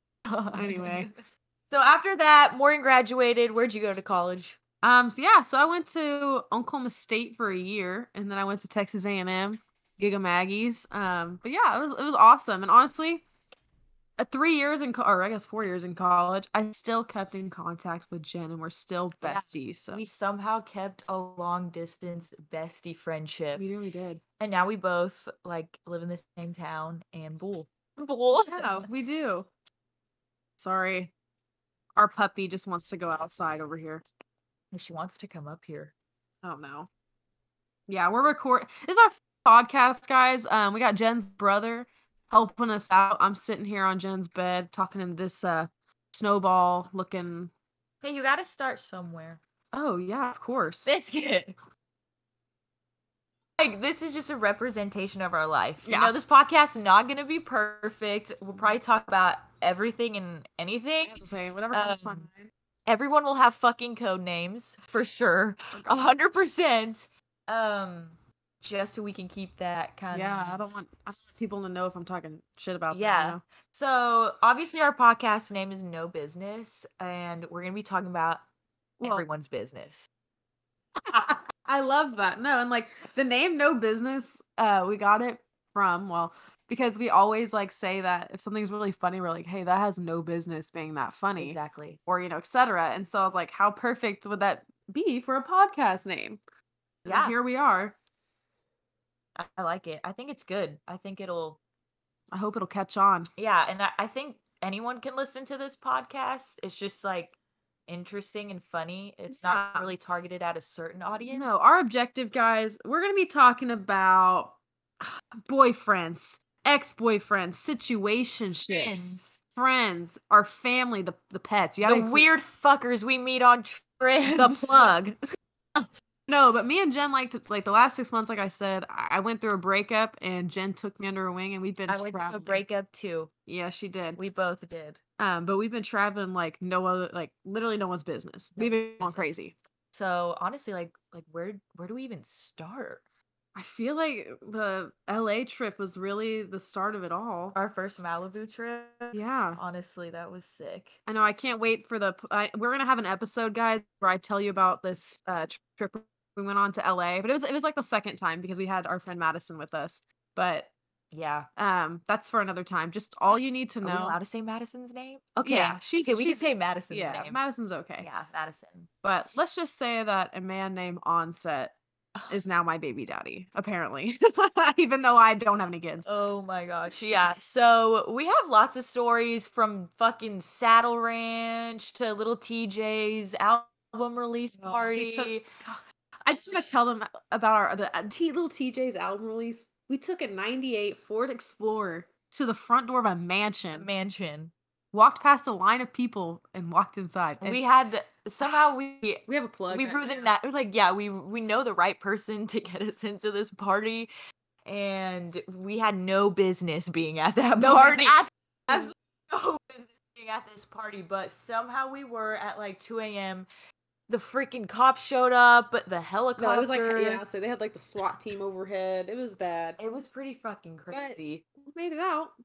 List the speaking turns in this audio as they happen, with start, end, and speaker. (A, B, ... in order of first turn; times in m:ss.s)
0:00.3-0:04.6 A
0:00.5-0:01.1 B
0:04.8-0:13.2 B
0:14.2-0:20.0 B
0:19.2-0:23.6 A
0:23.5-0:24.2 B
0:24.4-0:28.9 A
0:28.4-0:29.5 B
0:30.6-0:31.1 B
0:32.0-0:34.0 B
0:34.7-0:35.9 A
0:36.4-0:36.9 B
0:37.9-0:47.5 B
0:48.0-0:49.4 A
0:49.7-0:50.9 B
0:50.8-0:51.5 A
0:53.6-1:02.3 A
0:55.8-0:56.1 B
1:01.0-1:02.5 B
1:02.8-1:10.6 A
1:05.7-1:06.1 B
1:10.1-1:13.4 B
1:12.9-1:18.4 A
1:19.0-1:19.2 B
1:19.0-1:20.1 A
1:21.0-1:36.4 B
1:31.4-1:32.0 A
1:37.0-1:38.0 B
1:37.0-1:37.4 A
1:39.4-1:41.6 A
1:42.3-1:43.3 B
1:43.4-1:51.5 A
1:49.3-1:49.9 B
1:51.3-2:02.3 B
1:58.7-1:59.4 A
2:01.8-2:04.9 A
2:04.3-2:05.2 B
2:06.3-2:12.6 B
2:11.9-2:13.3 A
2:13.4-2:14.2 B
2:14.2-2:15.0 A
2:15.2-2:19.5 B
2:18.6-2:19.4 A
2:19.9-2:23.0 A
2:23.5-2:27.6 B
2:27.5-2:31.0 A
2:29.1-2:29.6 B
2:31.0-2:40.7 B
2:41.1-2:41.5 A
2:41.6-2:44.2 B
2:43.8-2:47.4 A
2:45.4-2:48.1 B
2:48.0-2:48.9 A
2:49.0-2:51.7 B
2:52.3-2:56.1 B
2:56.0-3:05.4 A
3:04.6-3:13.9 B
3:06.3-3:06.6 A
3:13.7-3:14.5 A
3:14.9-3:17.6 B
3:17.4-3:24.1 A
3:18.4-3:18.7 B
3:19.3-3:20.3 B
3:24.6-3:33.5 A
3:27.6-3:28.9 B
3:34.1-3:37.2 A
3:36.4-3:39.8 B
3:39.8-3:41.4 A
3:40.9-3:42.3 B